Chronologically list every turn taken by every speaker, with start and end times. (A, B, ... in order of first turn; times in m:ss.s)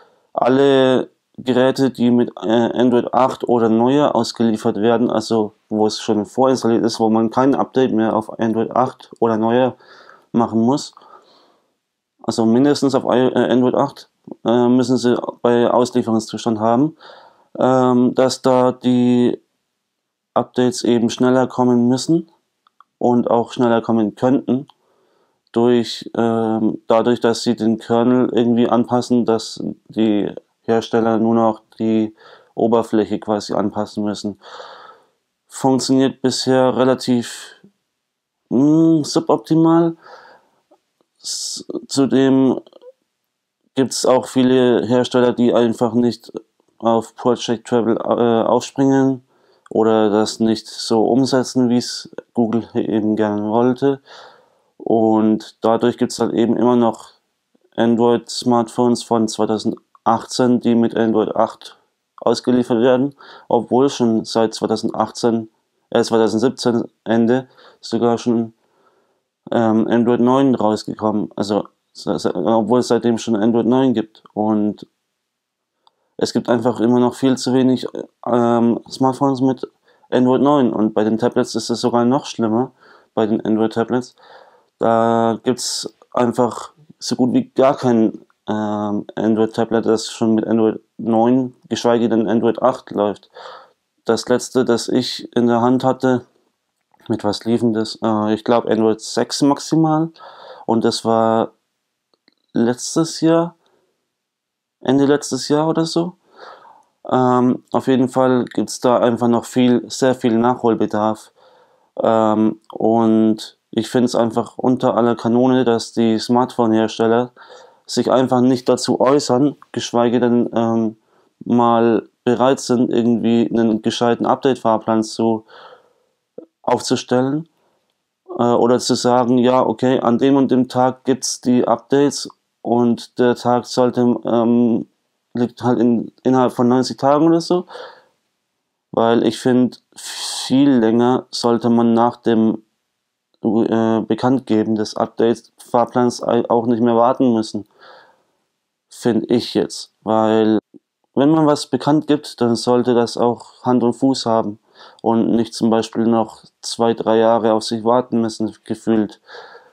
0:00.4-0:09.8 A
0:10.3-0:11.0 A
0:12.2-0:17.0 A
0:17.6-0:19.4 A
0:20.4-0:22.3 A
0:23.0-0:24.7 A
0:25.5-0:34.4 A
0:35.5-0:37.6 A
0:38.5-0:40.0 A
0:41.2-0:42.6 A
0:43.8-0:54.0 A
0:54.8-0:57.2 A
0:57.8-1:08.5 A
1:09.5-1:14.9 A
1:16.2-1:24.2 A
1:24.8-1:33.3 A
1:34.0-1:36.2 A
1:37.1-1:40.1 A
1:40.7-1:41.5 A
1:42.5-1:43.6 A
1:44.8-1:46.2 A
1:47.1-1:51.3 A
1:52.0-1:57.3 A
1:57.9-2:05.4 A
2:06.6-2:07.5 A
2:08.4-2:17.7 A
2:18.9-2:22.6 A
2:23.4-2:27.7 A
2:28.9-2:30.6 A
2:31.2-2:39.2 A